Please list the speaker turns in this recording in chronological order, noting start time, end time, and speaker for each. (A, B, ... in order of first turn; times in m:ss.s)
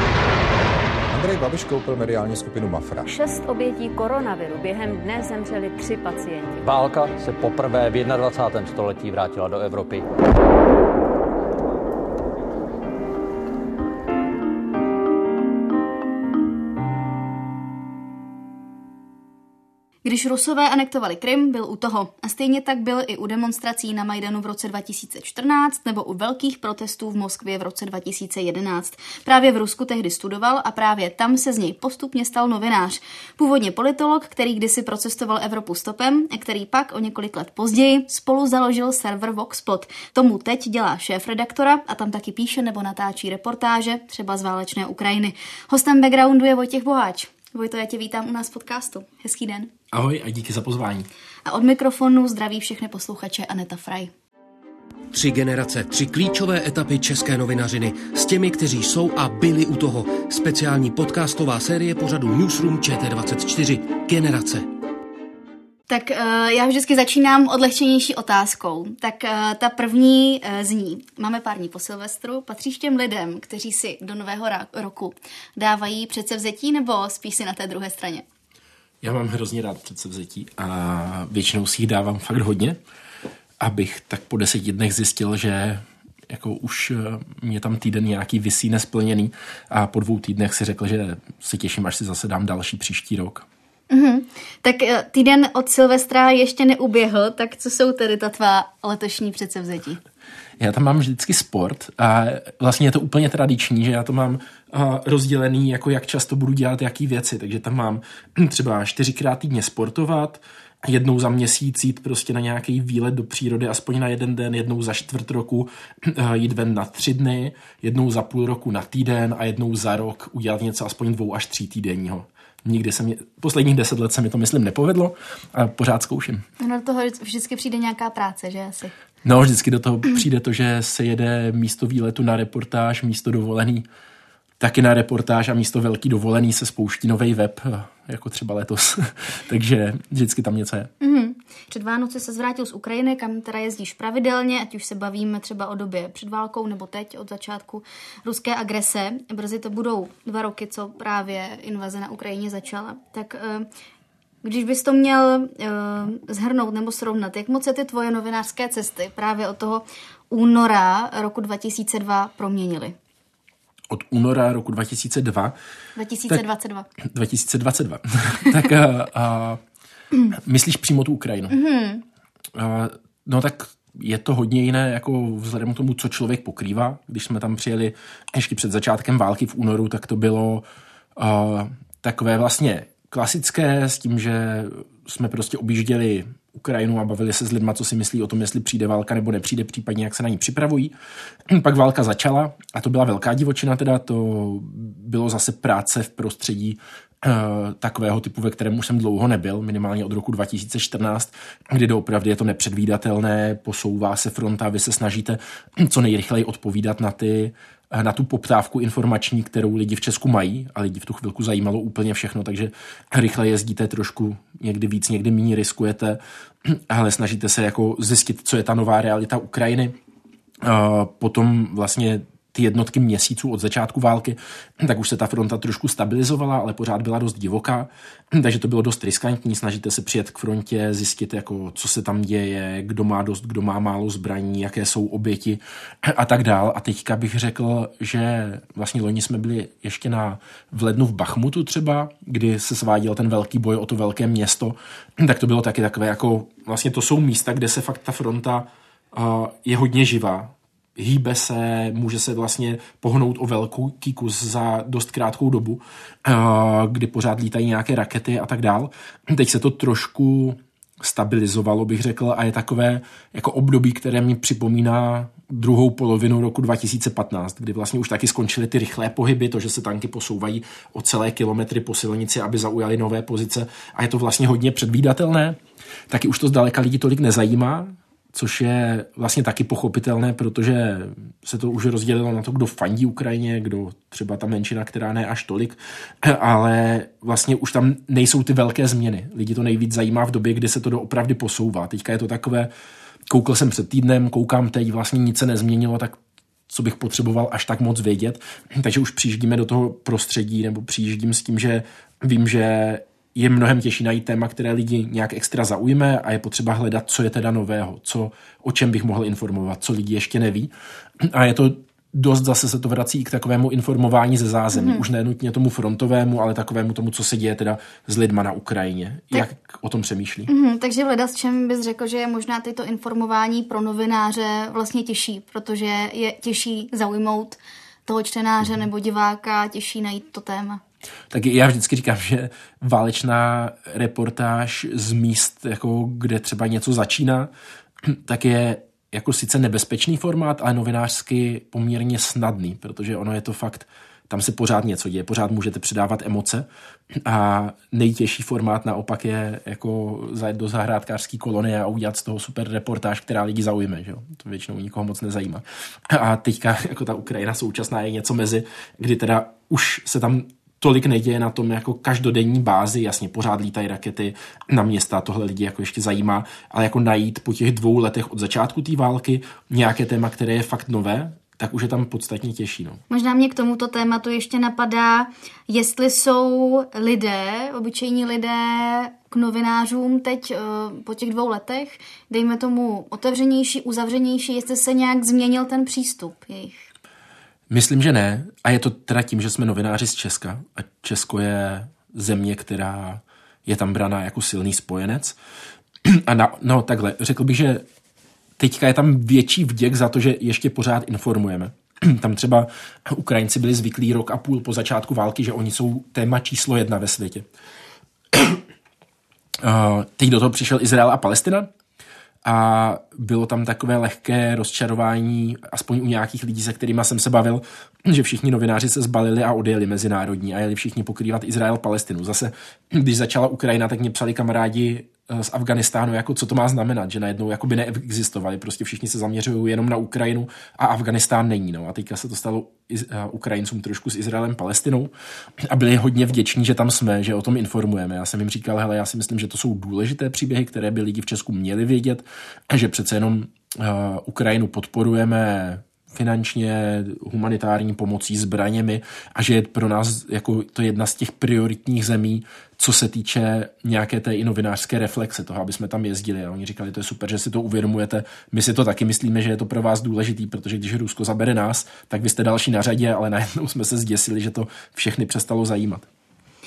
0:01.1-0:03.1 A
0:03.2-0:06.6 B
0:06.6-0:10.0 C
0:20.0-0:49.7 D
0:49.9-0:51.1 E
0:51.4-0:54.1 D
0:55.1-1:04.7 F
1:05.9-1:18.2 D
1:19.0-1:22.8 E
1:23.6-1:33.4 E
1:33.9-1:40.0 D
1:40.6-2:06.4 E
2:06.6-2:08.9 D
2:09.2-2:13.8 E
2:14.6-2:20.9 E
2:21.0-2:33.7 D
2:34.4-2:42.9 D
2:43.9-2:45.6 E
2:46.0-2:46.9 D
2:47.0-2:49.6 E
2:50.3-2:51.6 E
2:51.5-2:52.0 D
2:52.5-3:10.9 E
3:11.5-3:40.0 E
3:40.6-4:35.6 E
4:36.1-4:52.7 E
4:53.3-4:56.2 E
4:56.7-5:20.5 E
5:14.7-5:15.0 D
5:20.5-5:30.8 D
5:31.3-6:13.0 E
6:13.1-6:26.9 D
6:27.7-6:35.4 E
6:36.0-6:37.8 E
6:38.6-6:47.5 E
6:48.3-6:48.6 E
6:49.6-6:51.7 E
6:52.4-7:46.1 E